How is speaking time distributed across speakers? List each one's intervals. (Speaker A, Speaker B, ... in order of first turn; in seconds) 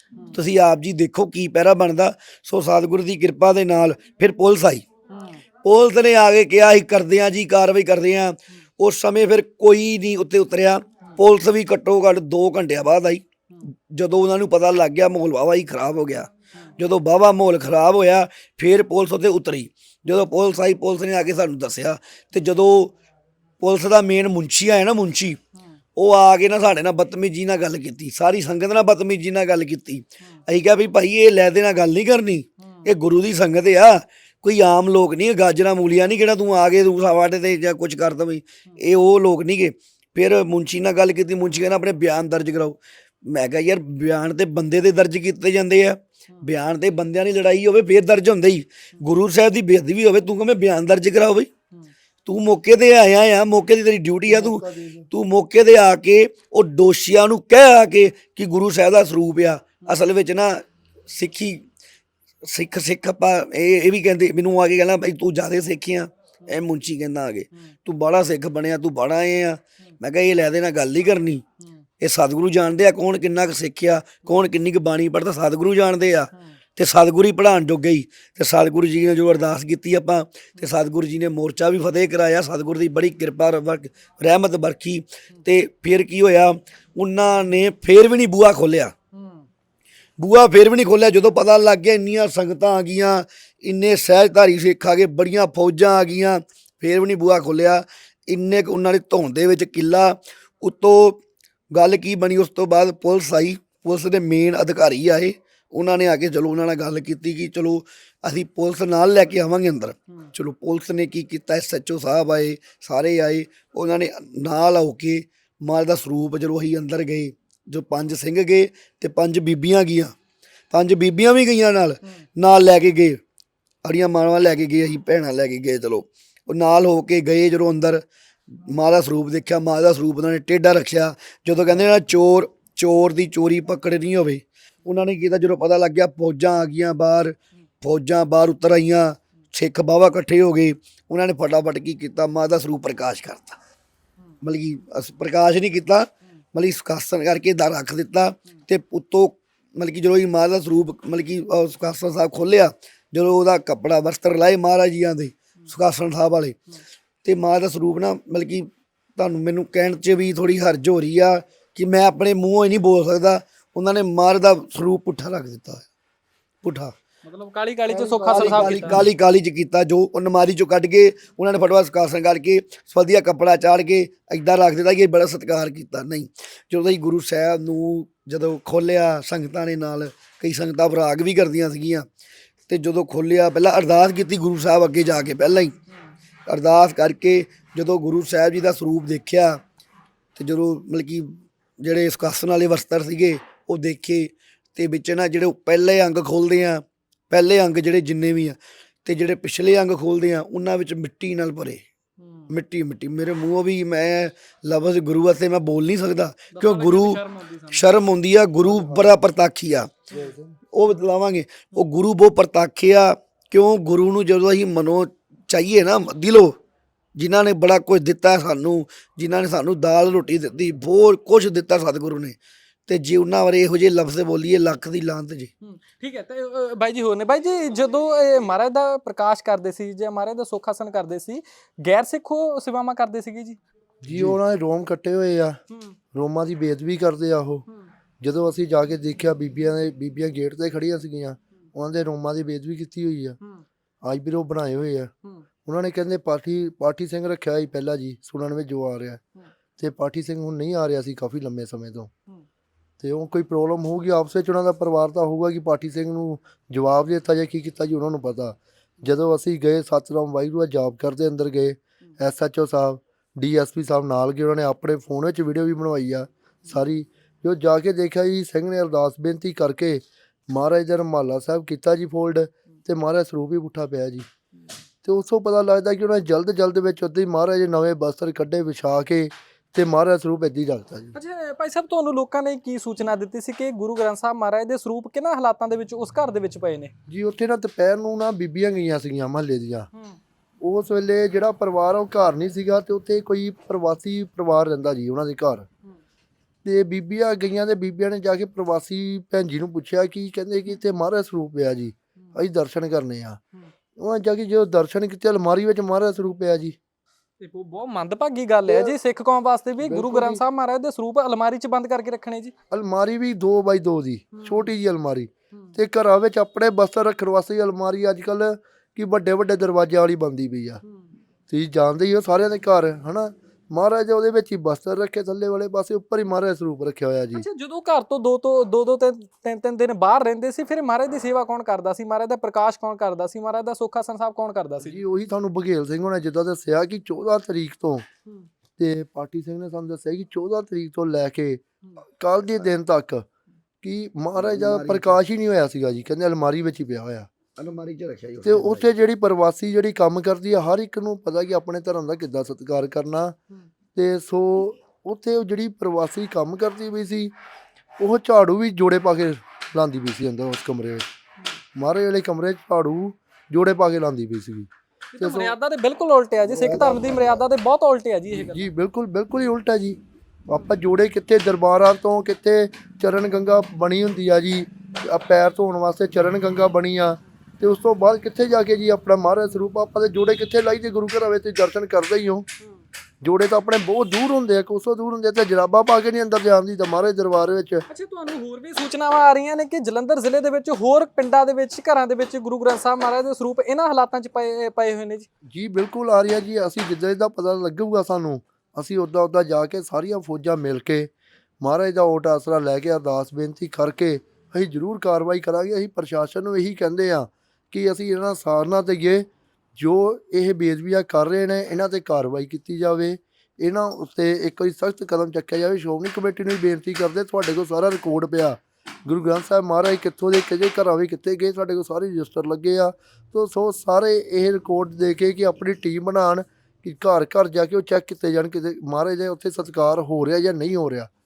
Speaker A: 0.3-4.8, 5.6-13.2, 13.9-22.9, 23.6-25.4, 25.9-51.5, 52.2-61.6, 62.5-71.4, 72.0-88.9, 90.2-101.2, 101.7-120.1, 120.7-123.2, 123.8-128.0, 128.6-143.6, 144.4-156.6, 157.2-165.8, 166.6-166.9, 167.9-182.1, 182.7-185.8, 186.5-189.6, 190.4-201.8, 202.5-207.2, 207.7-209.9, 210.7-216.6, 217.2-225.5, 234.1-234.3, 344.4-345.2, 347.6-348.9
Speaker B: 5.1-5.4, 32.6-32.9, 71.6-71.8, 89.1-89.5, 167.2-169.0, 202.2-202.5, 206.5-207.9, 225.6-233.6, 235.7-236.0, 281.1-286.9, 307.4-312.5, 314.3-314.7, 327.3-335.0, 365.1-368.7, 387.9-395.3
Speaker C: 54.2-55.1, 168.4-169.0, 208.6-209.1, 210.1-210.5, 234.0-235.6, 236.1-237.6, 238.2-243.4, 244.0-245.1, 245.6-249.2, 249.8-252.1, 253.0-274.2, 275.0-281.1, 287.1-289.9, 290.6-295.7, 296.6-303.4, 304.0-306.8, 308.7-308.9, 309.8-310.4, 312.7-320.8, 321.5-327.4, 334.8-338.0, 338.8-341.6, 342.2-343.3, 343.8-347.3, 348.4-353.4, 353.9-357.3, 358.0-361.1, 361.7-364.7, 365.2-365.5, 366.5-367.4, 368.3-382.5, 383.2-387.8, 395.5-431.1